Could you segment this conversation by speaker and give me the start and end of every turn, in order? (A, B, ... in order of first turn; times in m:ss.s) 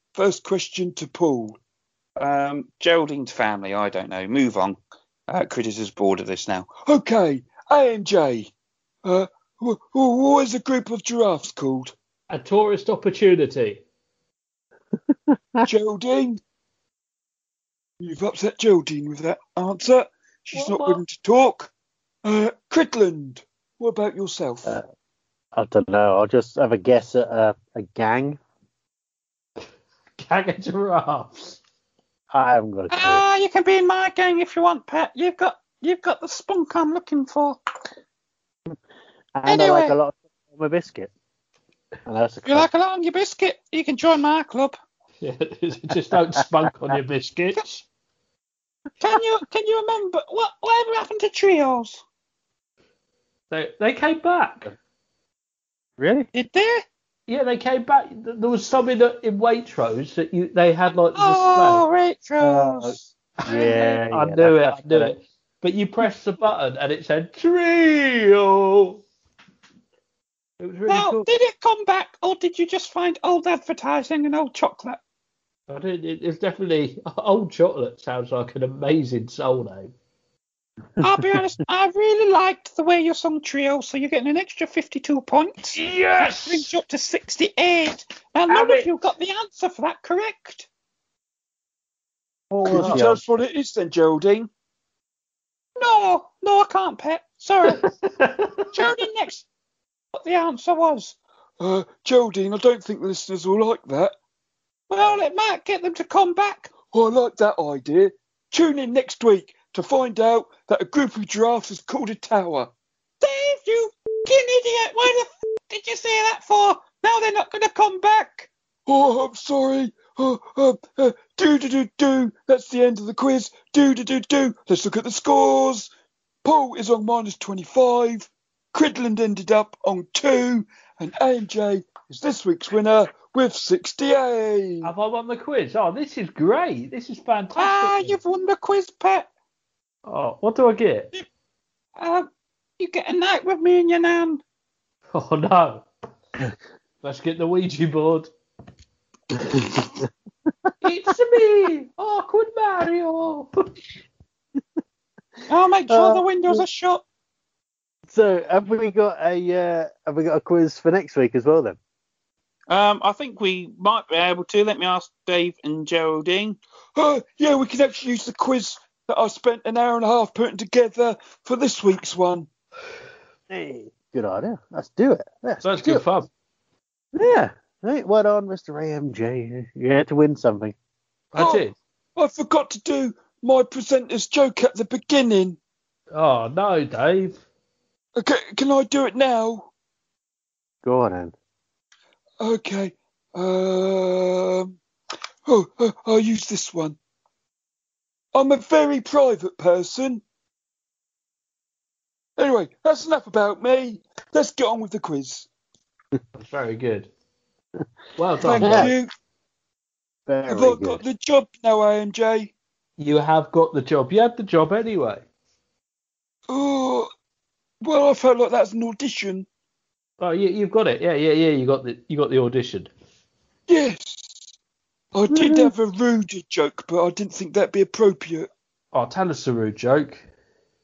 0:00.2-0:01.6 A
0:02.2-0:06.7 B
0:06.8-0:08.5 A
0:09.0-0:11.9 A
0:12.3-0:13.8 C
0:15.6-0:16.4 A
0:18.0-0:21.7 A
0:20.5-0:21.0 C
0:22.2-0:24.8 A
0:25.6-0:28.4 D
0:30.2-0:31.6 C
0:32.3-0:33.2 D
0:32.9-0:37.6 E
0:39.4-0:41.1 D
0:39.5-0:40.0 E
0:42.1-0:42.7 D
0:42.5-0:44.8 E
0:45.2-0:47.8 C
0:49.0-0:52.0 E
0:53.5-0:54.7 C
0:56.0-0:56.3 D
0:56.3-0:56.8 E
0:57.3-1:01.8 C
1:01.2-1:04.0 E
1:02.4-1:05.1 D
1:03.5-1:09.0 C
1:10.6-1:11.3 C
1:10.9-1:15.0 E
1:15.7-1:19.9 C
1:21.0-1:30.7 E
1:25.7-1:26.7 C
1:28.5-1:28.9 C
1:32.5-1:33.3 D
1:32.7-1:34.5 A
1:35.8-1:37.8 E
1:37.7-1:38.8 C
1:38.7-1:39.5 E
1:40.2-1:41.2 E
1:41.6-1:44.2 A
1:44.9-1:46.7 E
1:46.9-1:52.7 A
1:53.2-1:58.5 E
1:58.9-2:05.9 A
2:06.4-2:14.9 A
2:14.8-2:18.2 C
2:17.6-2:19.3 E
2:20.1-2:21.1 C
2:22.0-2:22.3 E
2:22.8-2:24.4 E
2:25.1-2:25.9 C
2:27.0-2:28.3 C
2:29.5-2:30.1 D
2:30.8-2:33.5 C
2:35.5-2:37.0 E
2:35.9-2:36.6 D
2:38.1-2:41.8 D
2:42.7-2:46.6 B
2:47.0-2:52.5 A
2:53.5-2:56.0 D
2:55.6-2:56.3 C
2:57.2-3:00.8 D
3:01.3-3:01.8 C
3:01.4-3:01.6 A
3:02.2-3:05.6 A
3:06.1-3:07.4 C
3:08.2-3:09.7 A
3:10.8-3:11.4 D
3:12.4-3:14.8 A
3:15.5-3:17.0 A
3:18.3-3:20.2 A
3:22.4-3:25.5 A
3:26.3-3:27.1 C
3:28.2-3:28.9 C
3:28.4-3:29.1 A
3:28.6-3:28.9 D
3:30.3-3:31.0 D
3:30.5-3:32.5 A
3:33.0-3:35.2 C
3:36.5-3:37.1 A
3:37.8-3:39.5 A
3:40.2-3:42.9 C
3:43.7-3:44.5 A
3:45.1-3:48.5 A
3:45.3-3:45.7 D
3:48.9-3:50.3 C